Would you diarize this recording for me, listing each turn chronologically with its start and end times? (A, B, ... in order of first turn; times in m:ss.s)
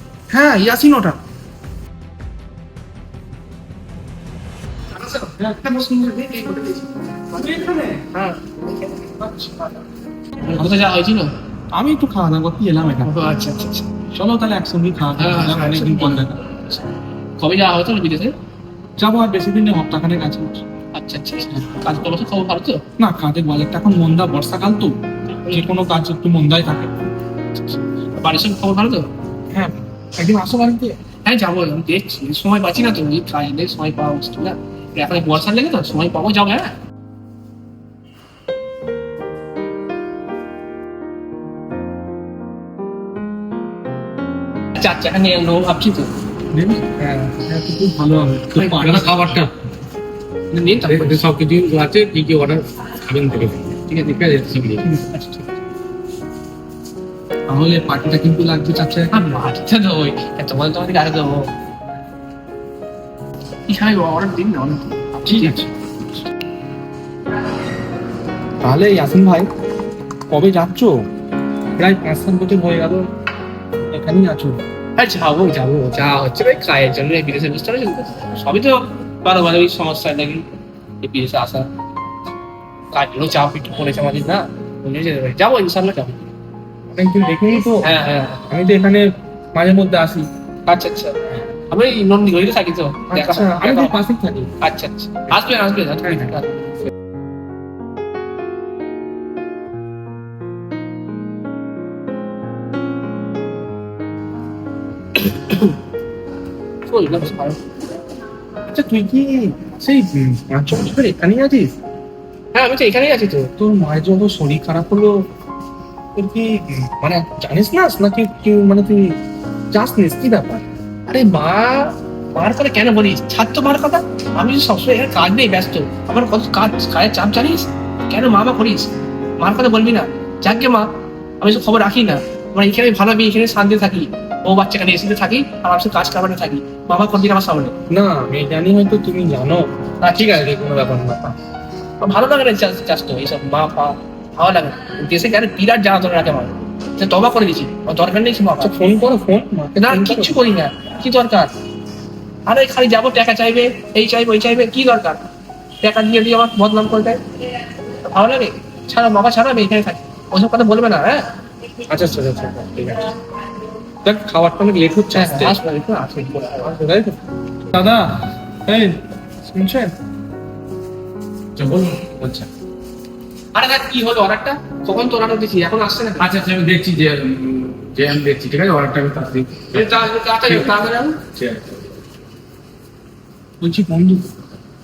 0:00.3-0:01.2 A
0:05.0-0:08.4 A
0:07.5-0:08.0 B
0:09.2-0:09.5 B
0:10.5-0:11.3 A
0:11.7-0:13.1 B
0:13.0-0:13.9 A
0:14.1-0:16.4 B
0:15.2-0:16.3 A
0:17.4-0:18.3 A
0:19.0-0:20.6 B
0:21.0-0:22.8 A
0:23.0-0:25.0 B
0:25.5-0:26.9 B
0:28.2-0:29.1 A
0:29.5-0:31.0 B
0:31.2-0:36.7 A
0:44.8-0:46.1 A
0:46.5-0:49.1 B
0:48.5-0:49.1 A
0:48.8-0:49.5 C
0:50.5-0:51.2 A
0:50.9-0:54.8 C
0:57.5-0:59.1 B
0:59.1-1:01.5 A
1:03.7-1:05.6 A
1:05.3-1:05.7 B
1:08.6-1:09.5 B
1:10.3-1:11.1 B
1:11.8-1:13.1 B
1:13.8-1:14.6 B
1:15.0-1:20.5 A
1:21.0-1:21.7 A
1:22.9-1:26.3 A
1:26.9-1:27.9 B
1:27.8-1:28.4 A
1:28.5-1:30.3 B
1:30.7-1:31.2 A
1:31.7-1:34.0 A
1:33.1-1:34.5 B
1:34.6-1:36.5 A
1:46.9-1:47.6 A
1:48.7-1:51.7 B
1:52.6-1:53.5 A
1:53.6-1:55.3 B
1:56.2-1:59.2 B
1:59.7-2:00.6 B
2:01.1-2:10.9 A
2:11.4-2:17.7 A
2:17.9-2:19.7 B
2:20.0-2:20.3 A
2:20.2-2:21.4 B
2:22.0-2:28.7 A
2:28.6-2:30.3 B
2:29.8-2:31.5 A
2:32.5-2:35.2 A
2:35.8-2:37.2 A
2:38.1-2:41.3 A
2:41.9-2:43.1 B
2:44.0-2:45.6 B
2:45.1-2:46.7 A
2:46.6-2:47.2 B
2:47.7-2:50.0 B
2:51.6-2:52.4 C
2:53.6-2:56.3 A
2:56.2-2:59.8 C
2:59.7-3:01.2 A
3:03.6-3:04.3 B